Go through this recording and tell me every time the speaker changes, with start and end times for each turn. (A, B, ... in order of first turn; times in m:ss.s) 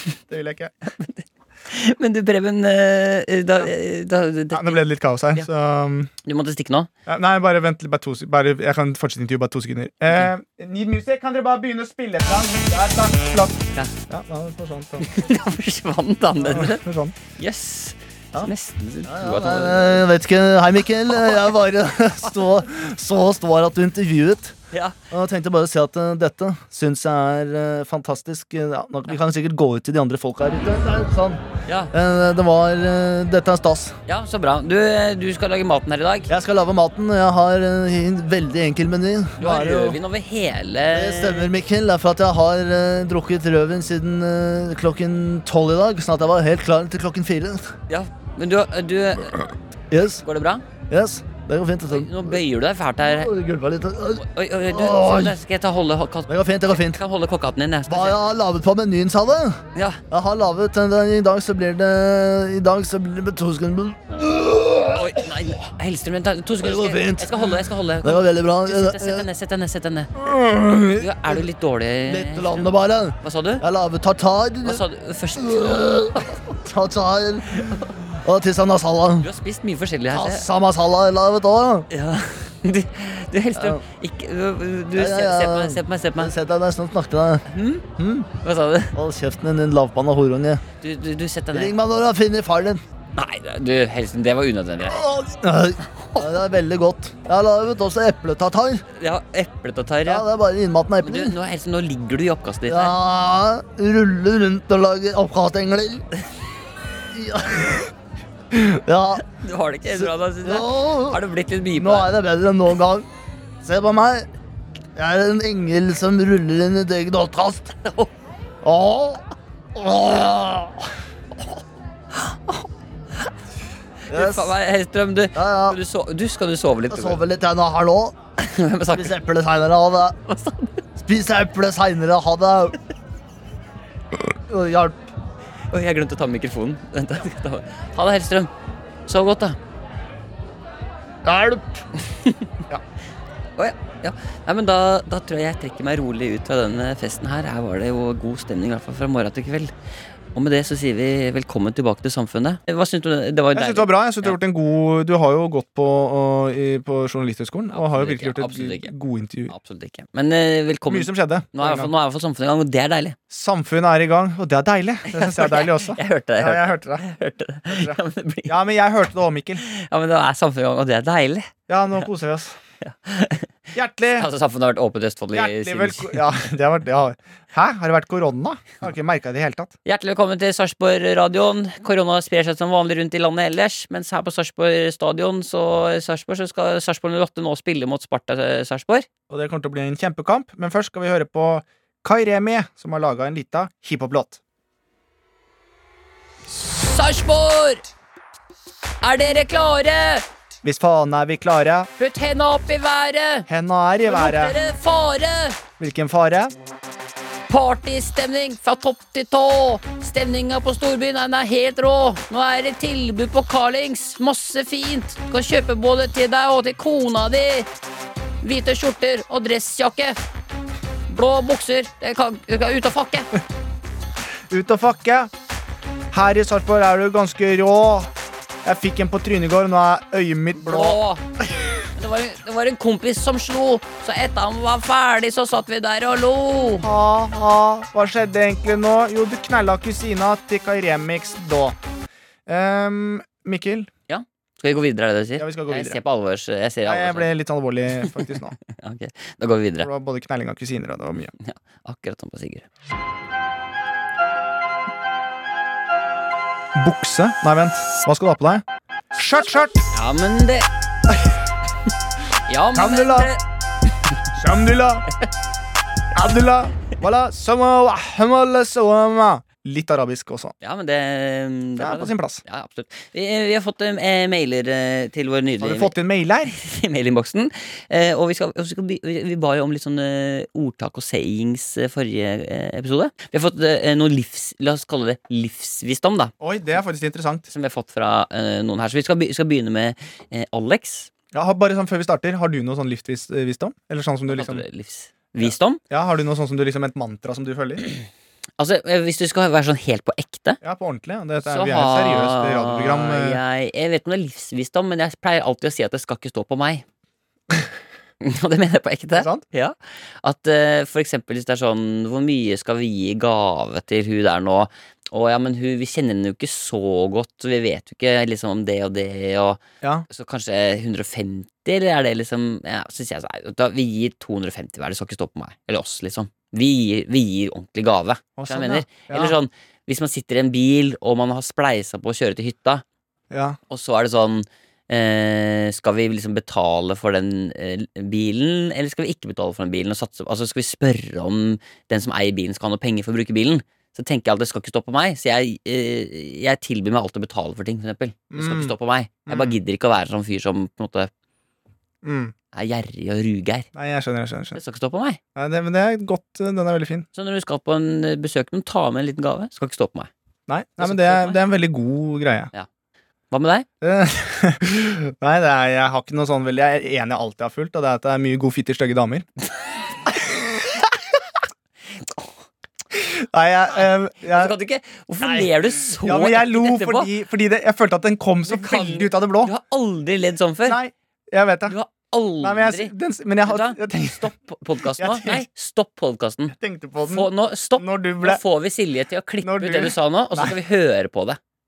0:00.3-0:00.9 A
0:00.9-0:05.5 B
0:04.5-0:06.1 A
0:06.2-0:06.9 B
0:07.0-0:15.1 A
0:15.0-0:16.8 B
0:16.4-0:17.2 A
0:17.4-0:20.1 B
0:19.0-0:24.6 C
0:25.1-0:33.9 C
0:31.7-0:31.9 B
0:34.1-0:36.3 B
0:36.3-0:40.0 C
0:39.4-0:41.5 B
0:40.9-0:47.7 C
0:47.9-0:49.5 B
0:49.9-0:50.2 C
0:50.2-0:50.6 B
0:50.9-0:52.4 C
0:51.9-0:53.3 B
0:53.0-0:55.4 C
0:54.1-0:58.2 B
0:56.3-0:57.0 C
0:57.9-0:59.6 C
0:59.7-1:00.0 B
1:00.1-1:05.2 C
1:04.9-1:10.1 B
1:06.6-1:09.3 C
1:10.2-1:11.4 C
1:10.9-1:13.6 B
1:12.0-1:14.8 C
1:14.6-1:16.4 B
1:15.4-1:19.3 C
1:17.5-1:18.0 B
1:19.2-1:20.4 B
1:20.1-1:21.9 C
1:21.9-1:26.3 B
1:23.6-1:23.8 C
1:24.9-1:27.4 C
1:27.5-1:27.8 B
1:28.0-1:28.3 C
1:28.4-1:29.0 B
1:28.9-1:30.6 C
1:30.8-1:31.7 B
1:31.5-1:32.8 C
1:33.2-1:35.0 B
1:34.9-1:38.8 C
1:38.9-1:40.2 B
1:40.0-1:41.3 C
1:41.0-1:43.0 B
1:42.7-1:46.0 C
1:47.1-1:47.9 C
1:48.5-1:49.2 C
1:49.2-1:52.1 B
1:49.9-1:51.2 C
1:51.7-1:53.1 C
1:53.6-1:54.3 C
1:55.0-1:57.7 C
1:57.8-1:58.1 B
1:58.6-2:00.9 C
2:02.1-2:02.6 B
2:04.1-2:07.2 B
2:04.1-2:04.5 C
2:05.3-2:05.8 C
2:06.9-2:08.1 C
2:08.4-2:09.2 B
2:08.9-2:10.2 C
2:10.2-2:10.8 B
2:11.0-2:12.8 C
2:14.5-2:15.0 C
2:15.7-2:18.5 B
2:19.1-2:19.6 B
2:21.2-2:21.8 C
2:22.1-2:22.5 B
2:23.6-2:29.7 B
2:30.3-2:34.4 B
2:33.5-2:39.5 A
2:37.7-2:38.9 B
2:39.5-2:43.2 B
2:40.9-2:41.9 A
2:43.3-2:47.0 A
2:45.1-2:48.6 B
2:47.7-2:49.6 A
2:49.6-2:51.5 B
2:51.7-2:52.6 A
2:52.8-2:53.5 B
2:53.7-2:54.3 A
2:54.2-2:56.3 B
2:55.3-2:59.7 A
2:59.8-3:09.1 B
3:09.3-3:14.4 A
3:16.5-3:17.8 B
3:19.0-3:20.2 B
3:20.6-3:21.9 A
3:22.0-3:23.5 B
3:23.5-3:24.6 A
3:24.0-3:25.6 B
3:25.8-3:26.5 A
3:27.5-3:37.7 B
3:38.4-3:40.2 B
3:41.1-3:43.3 B
3:44.5-3:45.3 A
3:46.1-3:48.1 A
3:48.6-3:51.0 A
3:50.5-3:51.2 B
3:51.9-3:56.9 B
3:56.8-4:01.8 A
4:02.4-4:03.9 A
4:04.1-4:07.3 B
4:05.4-4:06.0 A
4:06.8-4:08.6 A
4:08.0-4:09.9 B
4:09.8-4:11.3 A
4:11.4-4:12.6 B
4:16.8-4:19.8 A
4:19.9-4:20.7 B
4:22.5-4:23.4 B
4:22.7-4:23.3 A
4:24.3-4:25.0 A
4:26.1-4:30.5 A
4:30.6-4:36.0 B
4:31.8-4:32.4 A
4:35.6-4:36.5 A
4:36.5-4:46.3 B
4:46.4-4:47.5 A
4:47.5-4:51.1 B
4:51.3-4:54.6 A
4:54.3-4:55.8 B
4:55.4-4:57.8 A
4:58.6-5:00.6 B
5:00.6-5:03.4 A
5:01.4-5:06.8 B
5:08.2-5:32.8 B
5:09.1-5:09.4 A
5:28.4-5:29.4 A
5:33.3-5:33.6 A
5:33.7-5:51.1 B
5:48.3-5:48.7 A
5:49.2-5:49.6 A
5:52.0-5:52.3 A
5:52.5-5:53.7 B
5:53.7-5:54.6 A
5:54.5-5:55.2 B
5:55.3-5:57.1 A
5:57.1-6:00.1 B
6:00.5-6:02.5 A
6:00.8-6:01.4 B
6:03.3-6:03.7 B
6:03.8-6:09.3 A
6:12.9-6:14.6 A
6:14.2-6:17.1 B
6:15.2-6:19.5 A
6:18.4-6:20.8 B
6:20.6-6:21.8 A
6:21.7-6:26.5 B
6:22.4-6:24.3 A
6:25.0-6:25.5 A
6:26.5-6:28.4 A
6:27.1-6:31.4 B
6:29.4-6:30.6 A